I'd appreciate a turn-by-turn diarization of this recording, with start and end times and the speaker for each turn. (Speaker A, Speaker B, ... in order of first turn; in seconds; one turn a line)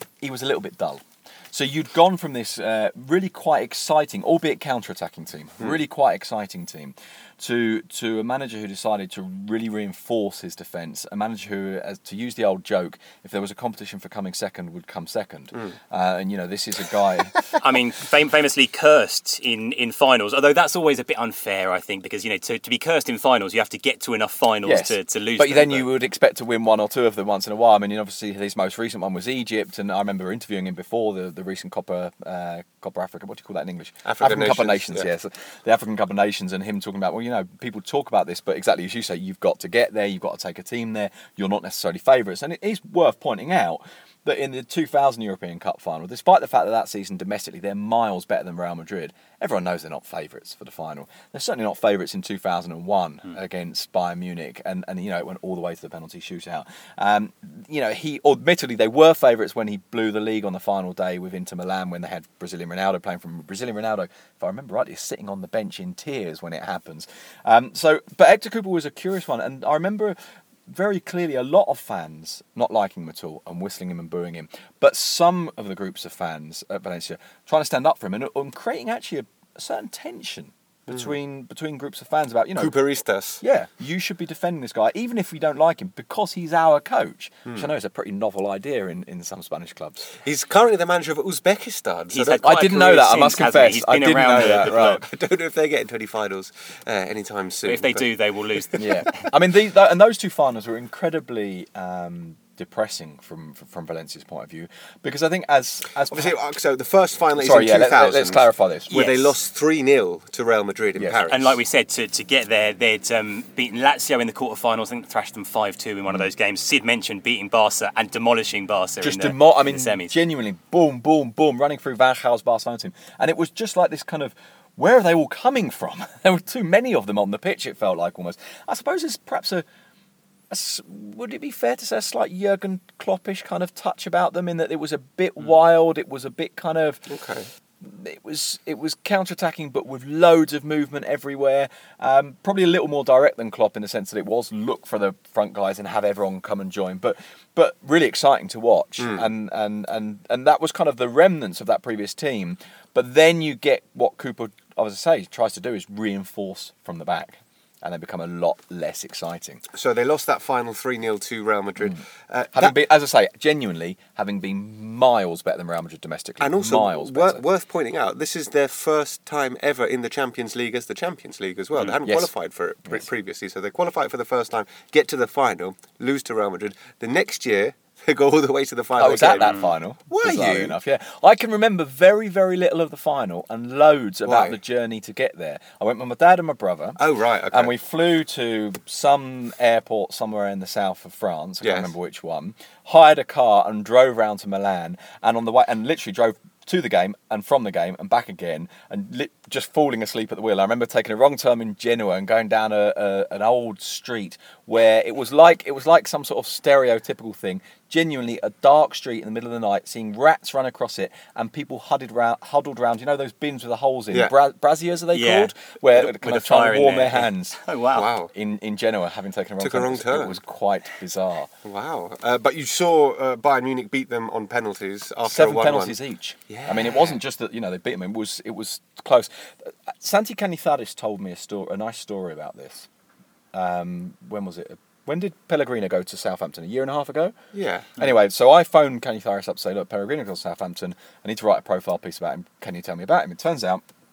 Speaker A: 0.2-17.4
Speaker B: 17.6-25.9
Speaker A: 24.6-82.8
Speaker C: 34.0-35.1
Speaker C: 80.9-81.1
Speaker C: 82.6-83.4
Speaker A: 83.4-90.1
Speaker C: 90.2-92.5
Speaker B: 92.1-95.0
Speaker A: 92.4-95.0
Speaker C: 94.5-98.8
Speaker B: 97.7-99.2
Speaker A: 98.8-106.3
Speaker C: 106.1-111.6
Speaker A: 107.4-108.9
Speaker B: 108.9-109.3
Speaker A: 111.0-111.2
Speaker B: 111.3-120.1
Speaker A: 119.0-129.7
Speaker A: 130.5-137.1
Speaker C: 137.1-137.5
Speaker A: 137.8-159.6
Speaker C: 149.0-149.3
Speaker C: 159.7-162.8
Speaker A: 162.5-167.4
Speaker C: 166.4-179.6
Speaker A: 172.0-172.3
Speaker A: 179.0-187.0
Speaker B: 179.3-179.7
Speaker C: 180.1-180.8
Speaker C: 184.2-184.6
Speaker C: 187.0-187.7
Speaker A: 187.5-217.6
Speaker C: 191.6-191.9
Speaker B: 215.1-218.1
Speaker C: 217.9-218.3
Speaker A: 218.3-221.5
Speaker C: 219.6-220.4
Speaker C: 221.6-226.0
Speaker A: 225.3-232.9
Speaker C: 226.5-227.2
Speaker A: 233.5-237.3
Speaker C: 237.5-237.9
Speaker A: 237.9-243.8